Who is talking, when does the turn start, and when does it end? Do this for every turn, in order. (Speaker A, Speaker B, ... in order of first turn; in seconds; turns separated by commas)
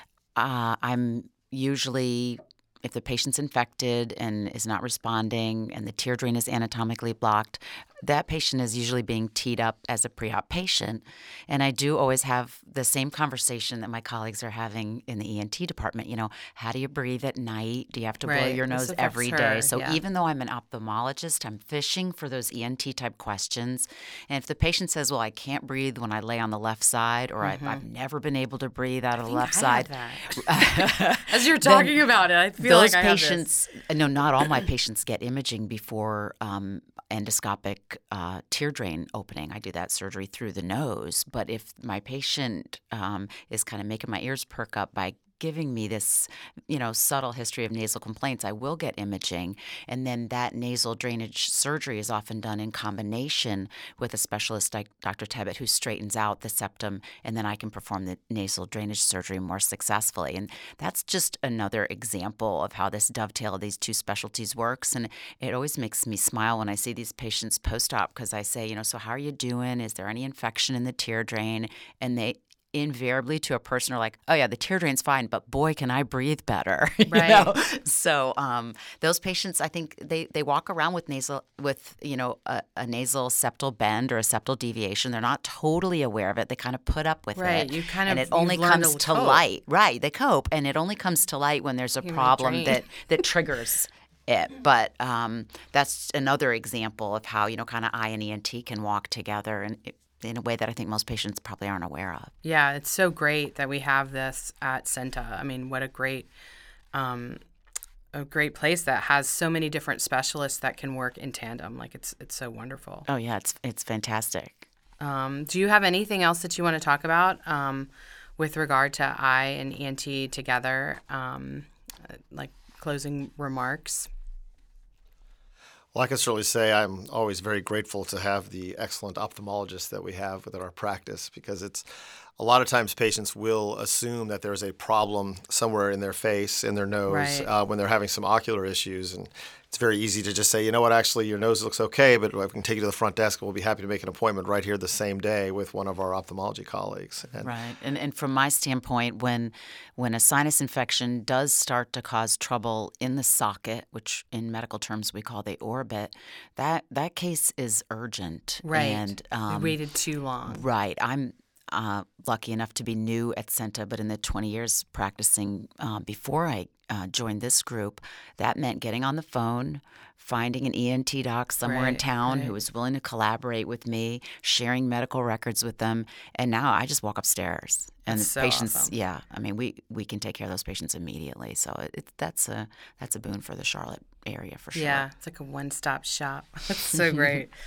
Speaker A: 0.3-32.1, Speaker B: 18.2-20.0, Speaker B: 27.4-27.8, Speaker B: 29.2-33.5, Speaker A: 32.6-102.3, Speaker B: 77.1-77.5, Speaker B: 87.3-89.4, Speaker B: 92.0-92.8, Speaker B: 102.4-106.3, Speaker B: 106.9-107.4, Speaker B: 108.1-113.0, Speaker A: 113.1-114.7, Speaker B: 115.0-124.1, Speaker C: 125.9-131.9, Speaker C: 132.4-147.5, Speaker B: 137.1-137.5, Speaker A: 147.4-159.8, Speaker B: 158.6-160.6, Speaker A: 160.4-185.1, Speaker B: 171.6-172.5, Speaker B: 178.1-178.9, Speaker B: 184.7-187.5